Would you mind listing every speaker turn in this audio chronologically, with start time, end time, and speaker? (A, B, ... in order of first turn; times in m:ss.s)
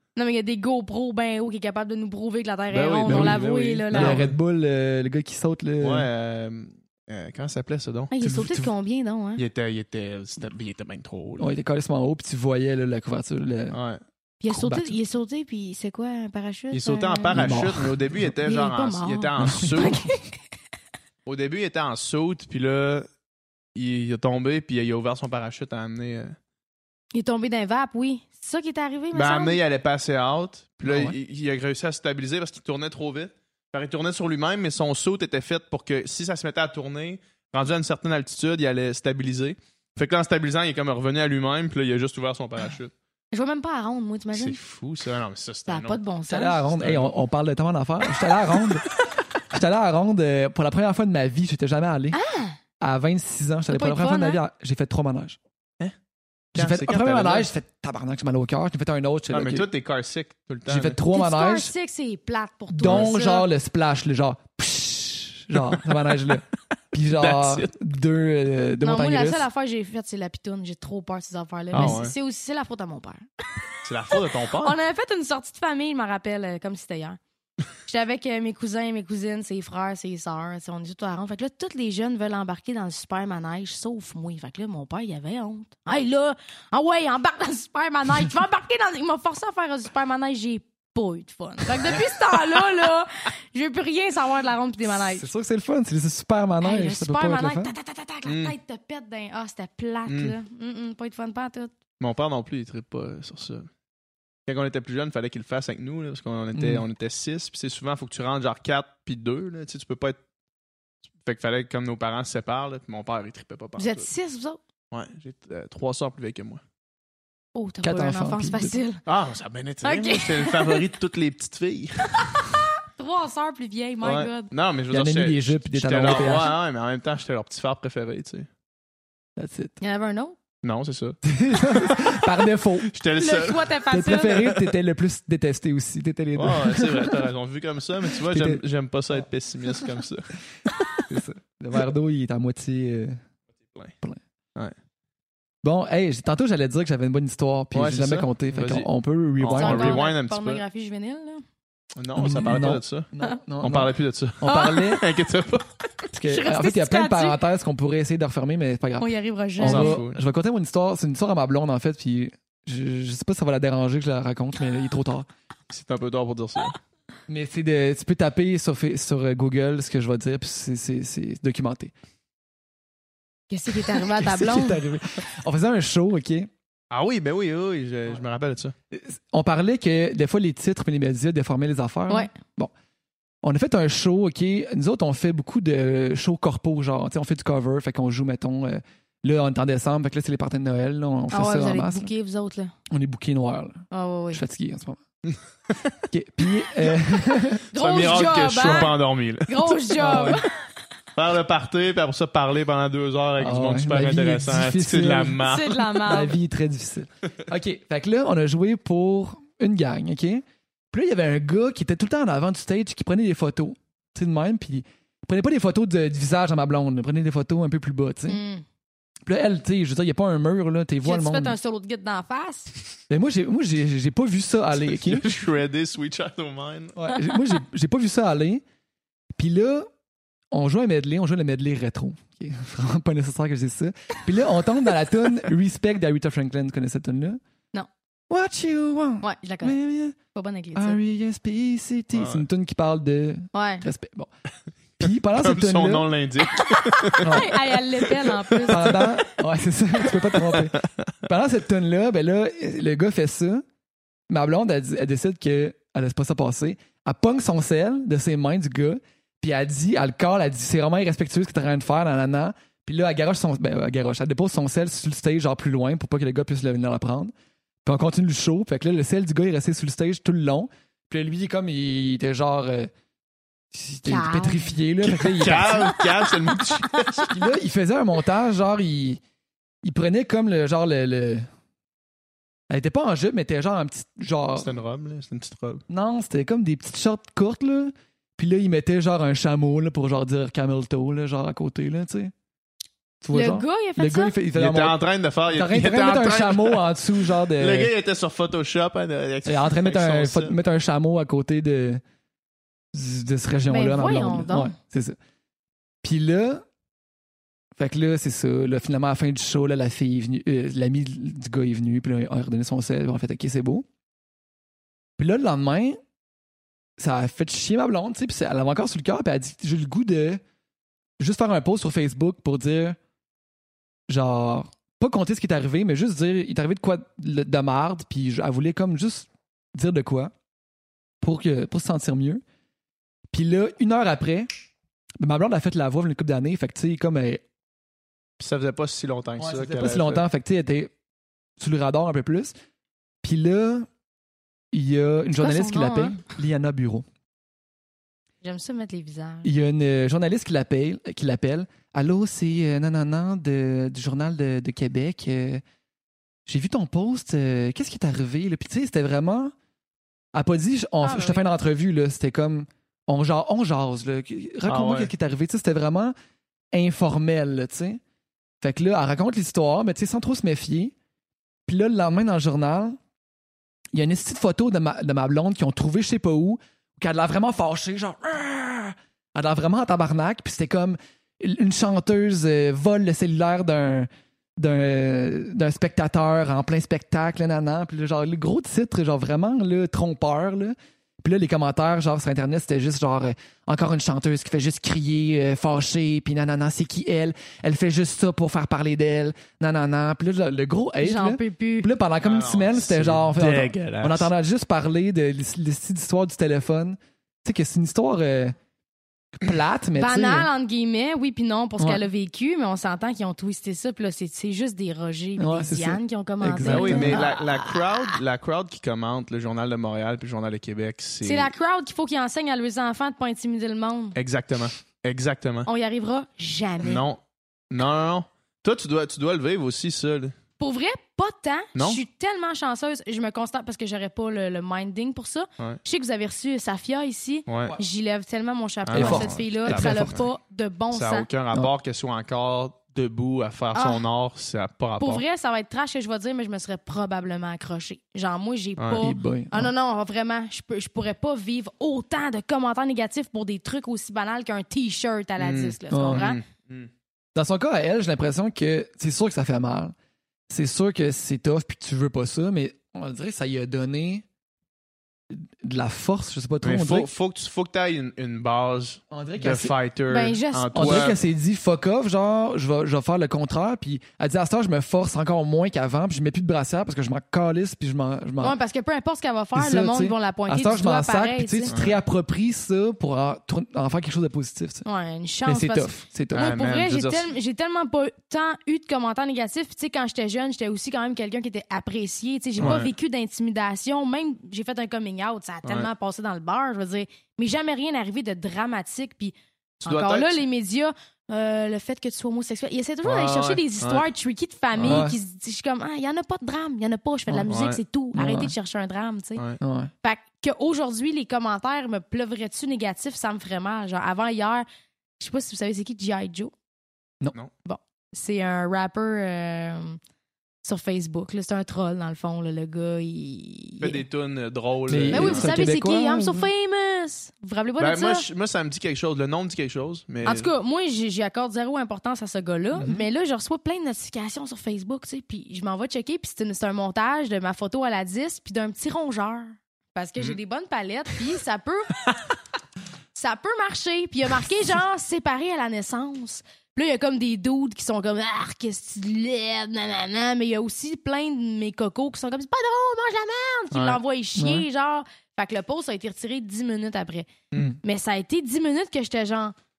0:00.2-0:04.3 A
0:02.7-0:04.3 B
0:03.0-0:06.1 C
0:05.8-0:08.1 B
0:08.1-0:09.4 A
0:08.2-0:08.7 C
0:09.4-0:11.5 B
0:11.4-0:13.8 C
0:13.7-0:14.0 B
0:14.4-0:17.5 A
0:14.5-0:15.0 C
0:16.7-0:20.0 B
0:17.3-0:18.0 C
0:18.4-0:20.4 A
0:19.4-0:20.0 C
0:21.2-0:23.1 B
0:23.7-0:26.3 B
0:27.1-0:29.6 A
0:29.1-0:42.9 B
0:30.8-0:31.1 C
0:43.3-0:44.6 A
0:44.3-0:46.0 B
0:45.7-0:46.6 A
0:46.3-0:48.8 C
0:46.7-0:47.2 B
0:49.5-0:52.2 C
0:52.1-0:52.6 A
0:52.8-0:55.4 C
0:53.7-0:54.4 A
0:56.5-0:57.5 B
0:56.5-0:59.7 C
0:59.3-1:01.0 B
1:00.7-1:01.7 C
1:01.1-1:03.5 A
1:02.7-1:09.4 C
1:07.1-1:07.7 B
1:08.8-1:13.2 A
1:11.7-1:12.0 C
1:11.7-1:12.1 B
1:13.8-1:14.8 B
1:14.1-1:17.2 A
1:17.8-1:35.3 A
1:34.9-1:37.7 C
1:36.6-1:41.7 A
1:38.2-1:38.5 B
1:40.1-1:40.4 B
1:42.0-1:43.7 B
1:44.4-1:50.2 B
1:46.5-1:46.8 C
1:51.2-1:54.1 B
1:53.8-1:54.6 A
1:54.9-1:56.6 B
1:57.5-1:59.0 A
1:57.8-1:58.8 C
1:59.0-2:02.6 B
1:59.8-2:00.8 A
2:02.1-2:04.5 A
2:04.0-2:08.5 B
2:04.9-2:06.6 C
2:09.4-2:09.8 C
2:09.8-2:10.4 A
2:10.6-2:11.2 B
2:11.2-2:12.9 C
2:12.9-2:13.7 B
2:13.2-2:14.5 A
2:13.9-2:17.3 C
2:16.4-2:20.3 B
2:18.1-2:18.6 C
2:21.1-2:23.2 C
2:25.6-2:30.0 C
2:27.7-2:28.9 B
2:29.4-2:30.6 B
2:29.5-2:31.4 A
2:32.0-2:33.1 B
2:32.2-2:35.0 C
2:33.6-2:35.8 B
2:34.4-2:34.9 A
2:36.1-2:45.3 C
2:36.3-2:37.4 A
2:39.0-2:40.0 A
2:39.6-2:40.2 B
2:45.7-2:46.8 B
2:47.3-2:51.9 C
2:53.5-2:54.8 A
2:53.9-2:56.5 C
2:56.9-2:58.7 B
2:58.9-3:02.7 C
3:03.4-3:12.1 C
3:11.3-3:12.7 A
3:12.9-3:15.0 C
3:13.9-3:14.4 A
3:16.1-3:17.6 C
3:17.7-3:20.5 A
3:17.8-3:20.1 B
3:20.0-3:20.4 C
3:21.2-3:26.1 B
3:23.4-3:25.4 C
3:25.4-3:26.3 A
3:26.0-3:38.4 C
3:38.3-3:38.6 A
3:39.2-3:41.6 C
3:41.0-3:42.7 A
3:43.1-3:45.3 C
3:44.9-3:47.0 B
3:47.0-3:48.6 C
3:49.3-3:49.9 C
3:50.5-3:57.4 C
3:58.3-4:00.2 C
3:59.2-3:59.8 A
4:00.3-4:01.0 A
4:00.7-4:04.3 C
4:02.1-4:02.4 B
4:03.5-4:03.8 A
4:05.0-4:06.1 C
4:05.0-4:09.0 B
4:06.5-4:09.1 A
4:07.2-4:07.5 C
4:08.7-4:13.6 C
4:10.2-4:10.9 B
4:14.3-4:27.3 C
4:27.8-4:32.9 C
4:33.7-4:35.9 C
4:34.0-4:34.7 A
4:35.0-4:37.3 B
4:35.8-4:37.3 A
4:37.3-4:39.2 C
4:39.8-4:41.5 C
4:42.7-4:44.7 C
4:44.6-4:45.8 B
4:45.9-4:52.3 C
4:53.2-4:55.0 C
4:53.3-4:54.4 A
4:54.5-5:00.5 B
4:55.5-4:57.9 C
4:59.4-5:02.0 C
5:02.9-5:05.2 C
5:03.7-5:04.7 A
5:06.0-5:06.6 C
5:07.8-5:13.8 C
5:15.2-5:16.0 C
5:17.0-5:20.4 C
5:21.2-5:23.0 C
5:24.1-5:30.3 C
5:31.2-5:32.4 C
5:33.3-5:34.5 C
5:35.2-5:37.4 C
5:38.4-5:40.2 B
5:39.4-5:40.9 C
5:41.6-5:42.5 C
5:43.2-5:43.9 C
5:44.7-5:47.0 C
5:45.4-5:46.2 A
5:48.4-5:49.5 A
5:49.4-5:55.6 C
5:56.4-5:59.5 C
6:00.3-6:06.1 C
6:01.0-6:01.4 A
6:04.6-6:05.1 B
6:06.7-6:08.0 C
6:08.6-6:10.9 C
6:11.7-6:13.0 C
6:13.9-6:48.5 C
6:41.0-6:41.9 A
6:42.2-6:44.3 B
6:49.3-6:50.5 C
6:49.9-6:58.2 A
6:55.4-6:57.2 C
6:56.6-7:01.5 B
7:01.2-7:04.2 A
7:04.2-7:05.7 B
7:05.6-7:07.0 A
7:06.8-7:07.2 B
7:07.7-7:10.3 B
7:10.6-7:21.3 A
7:11.7-7:12.0 B
7:17.5-7:17.8 B
7:18.9-7:20.3 B
7:18.9-7:20.2 C
7:20.9-7:25.2 B
7:23.7-7:24.0 A
7:25.0-7:36.4 A
7:28.8-7:29.0 B
7:29.0-7:29.7 C
7:35.4-7:36.9 B
7:35.9-7:36.3 C
7:37.3-7:39.9 C
7:40.5-7:44.2 C
7:45.3-7:47.1 C
7:46.6-7:51.2 B
7:49.1-7:49.7 C
7:50.1-7:51.1 A
7:50.7-7:58.6 C
7:58.4-8:01.7 A
7:59.5-8:04.8 C
8:01.7-8:02.0 B
8:04.8-8:29.4 A
8:05.4-8:06.6 C
8:06.3-8:07.3 B
8:12.6-8:12.9 B
8:15.6-8:15.9 B
8:19.8-8:20.4 B
8:23.0-8:24.1 B
8:24.8-8:25.0 B
8:24.8-8:25.2 C
8:27.5-8:27.8 B
8:28.1-8:28.5 C
8:29.6-8:29.9 C
8:30.0-8:34.6 A
8:35.2-8:36.5 A
8:37.6-8:40.0 A
8:40.6-8:44.0 A
8:43.8-8:45.6 B
8:44.9-8:46.5 C
8:45.1-8:48.2 A
8:47.8-8:50.5 B
8:50.2-9:01.9 A
8:52.8-8:53.0 C
9:03.1-9:17.3 A
9:13.7-9:14.0 B
9:14.4-9:14.6 C
9:17.5-9:17.8 B
9:17.8-9:19.5 A